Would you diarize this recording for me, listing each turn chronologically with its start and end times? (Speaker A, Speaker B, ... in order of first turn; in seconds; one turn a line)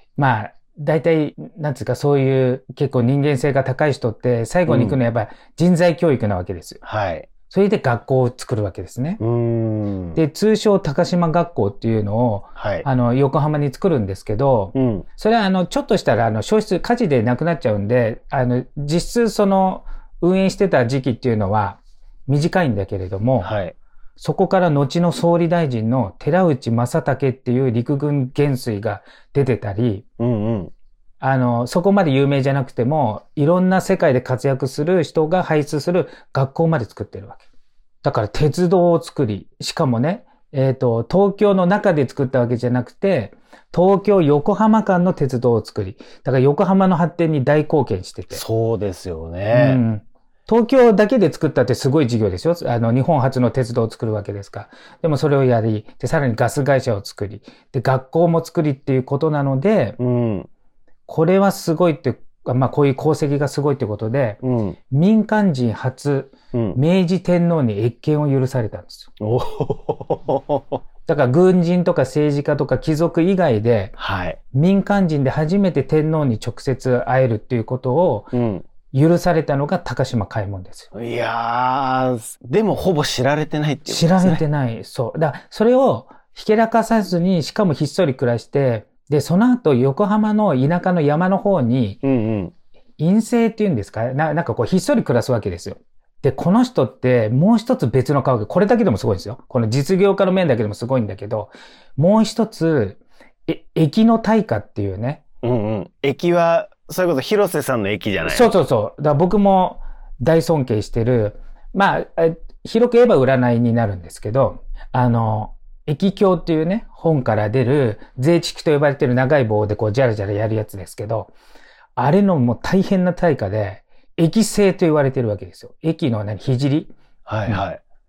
Speaker A: 0.2-6.8
Speaker B: 4.7-5.0
Speaker B: 6.8-7.3
Speaker A: 7.5-9.2
Speaker B: 9.2-10.2
Speaker A: 10.2-23.5
Speaker B: 12.6-12.9
Speaker B: 14.7-15.1
Speaker B: 23.4-23.8
Speaker A: 24.2-30.1
Speaker B: 30.2-30.7
Speaker A: 31.2-37.4
Speaker A: 38.0-48.4
Speaker B: 48.3-49.8
Speaker A: 49.5-60.0
Speaker B: 60.0-60.5
Speaker A: 61.1-64.4
Speaker B: 64.4-64.8
Speaker A: 64.9-69.1
Speaker B: 66.5-66.8
Speaker B: 69.2-70.8
Speaker A: 71.1-74.0
Speaker B: 74.0-74.4
Speaker A: 74.5-78.3
Speaker B: 78.3-78.7
Speaker A: 78.9-80.9
Speaker B: 80.9-84.4
Speaker A: 83.9-92.0
Speaker B: 92.0-92.5
Speaker A: 93.0-105.2
Speaker B: 105.4-108.5
Speaker A: 108.2-121.3
Speaker A: 122.0-126.9
Speaker B: 127.3-127.8